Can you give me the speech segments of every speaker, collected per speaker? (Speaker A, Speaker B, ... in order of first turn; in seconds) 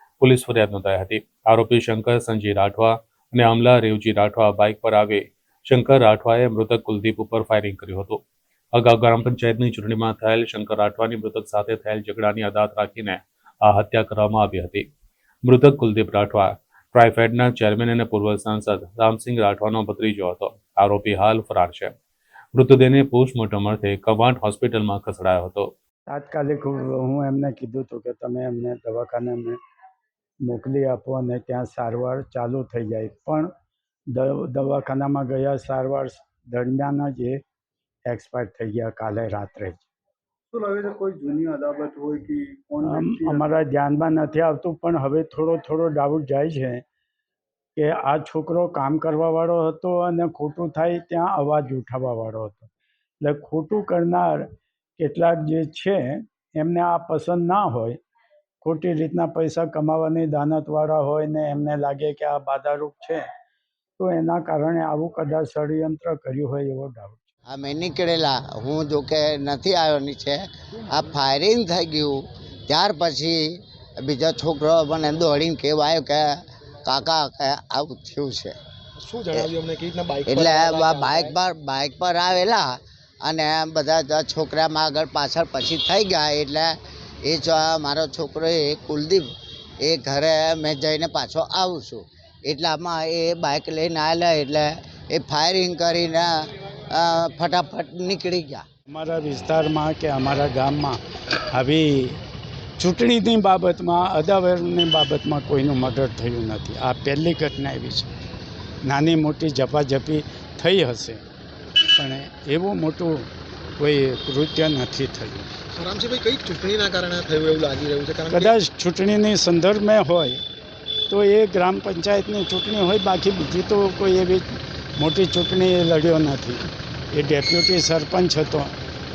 Speaker A: 0.2-8.2, 8.7-14.9, 15.4-21.9, 22.6-25.7
Speaker B: 26.1-29.6, 30.4-33.5, 34.1-37.4, 38.0-39.9, 42.8-46.8, 47.8-52.7, 53.2-58.0, 58.6-63.2, 64.0-67.3, 98.9-102.2, 102.8-108.1, 108.8-111.2, 111.9-115.5, 118.3-120.4, 121.1-128.7
Speaker C: 40.7-42.6, 43.1-43.5
Speaker D: 67.5-73.4, 74.0-78.6, 80.2-89.3, 89.8-96.3, 96.9-98.7
Speaker E: 79.0-81.4, 115.7-118.5